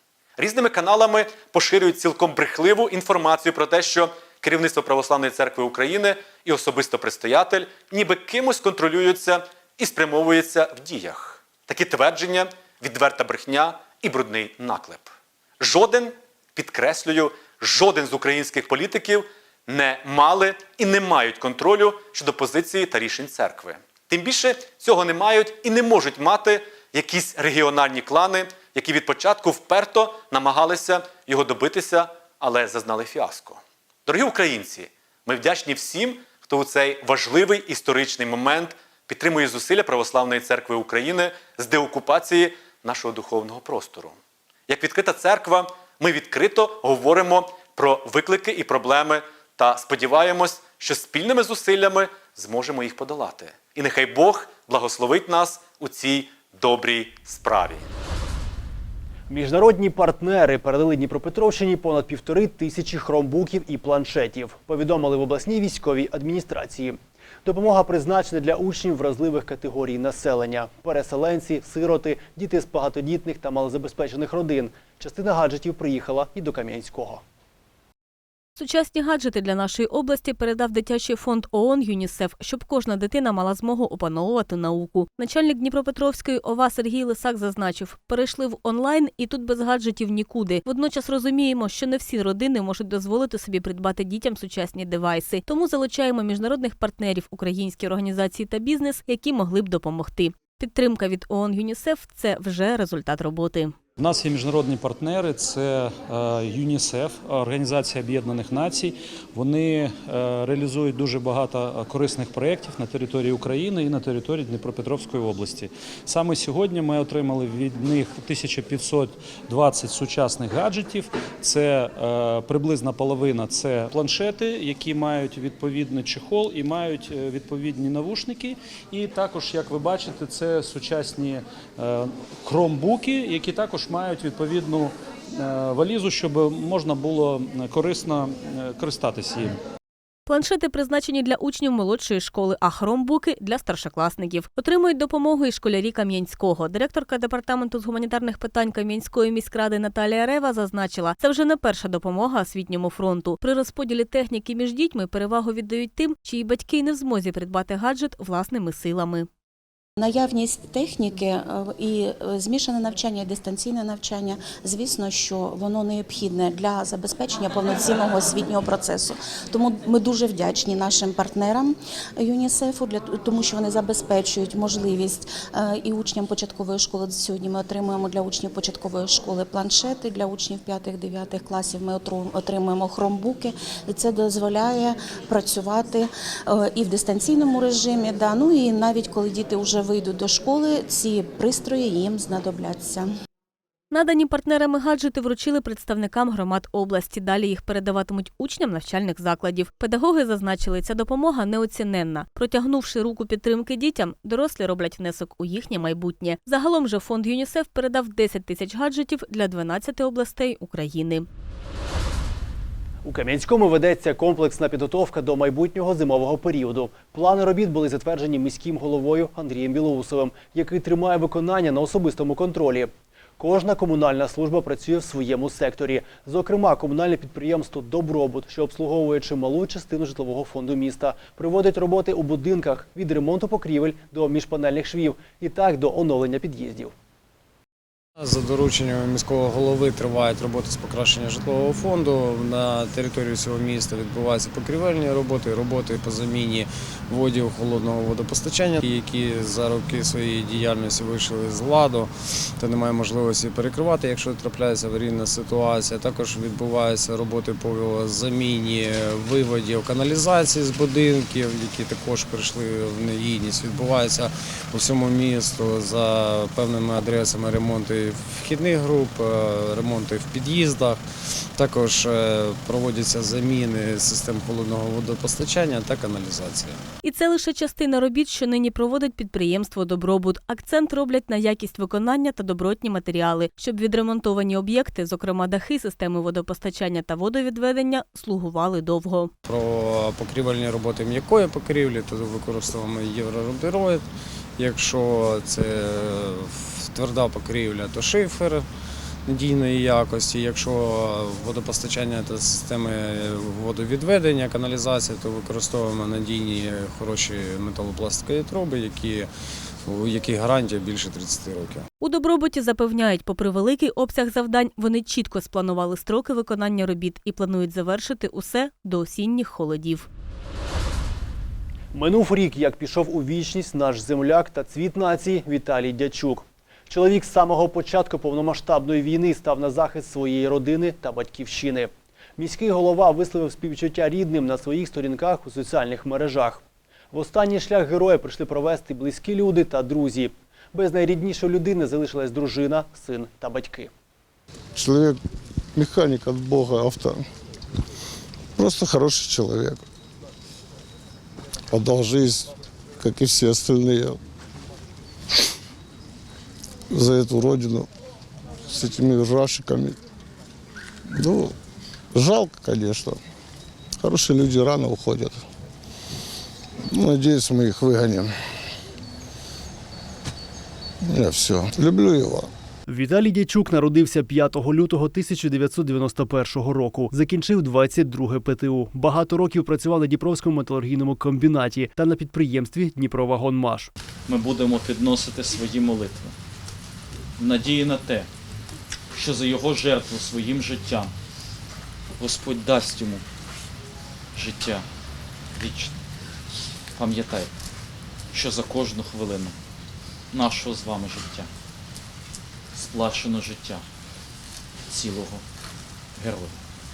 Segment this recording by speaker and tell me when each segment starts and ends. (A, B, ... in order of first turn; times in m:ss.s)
0:00.4-0:44.2 A
0:44.7-0:57.9 A
0:59.3-1:17.2 B
1:18.6-1:43.8 C
1:44.0-2:19.6 D
2:20.3-2:39.3 C
2:40.0-3:13.1 E
3:13.9-3:31.3 C
3:33.0-3:56.9 B
3:58.2-4:31.0 F
4:31.6-4:36.8 F
4:37.0-4:49.3 C
4:49.5-4:54.0 F
4:54.6-4:58.7 F
4:59.2-5:09.3 F
5:09.9-5:11.9 F
5:12.0-5:20.1 C
5:21.9-5:43.9 B
5:44.8-5:45.2 G
5:45.7-5:47.2 G
5:48.6-5:49.8 G
5:51.7-5:54.2 G
5:56.9-5:57.9 G
5:58.7-6:00.0 G
6:01.1-6:01.5 G
6:02.1-6:03.2 G
6:04.0-6:05.4 G
6:06.9-6:08.3 G
6:11.0-6:12.5 G
6:12.9-6:23.9 B
6:24.3-6:26.3 H
6:27.4-6:28.3 H
6:29.1-6:31.1 H
6:32.2-6:33.2 H
6:34.4-6:34.8 H
6:35.6-6:35.9 H
6:37.0-6:37.5 H
6:38.3-6:39.5 H
6:40.3-6:41.5 H
6:42.8-6:43.8 H
6:44.9-6:45.4 H
6:46.2-6:46.5 H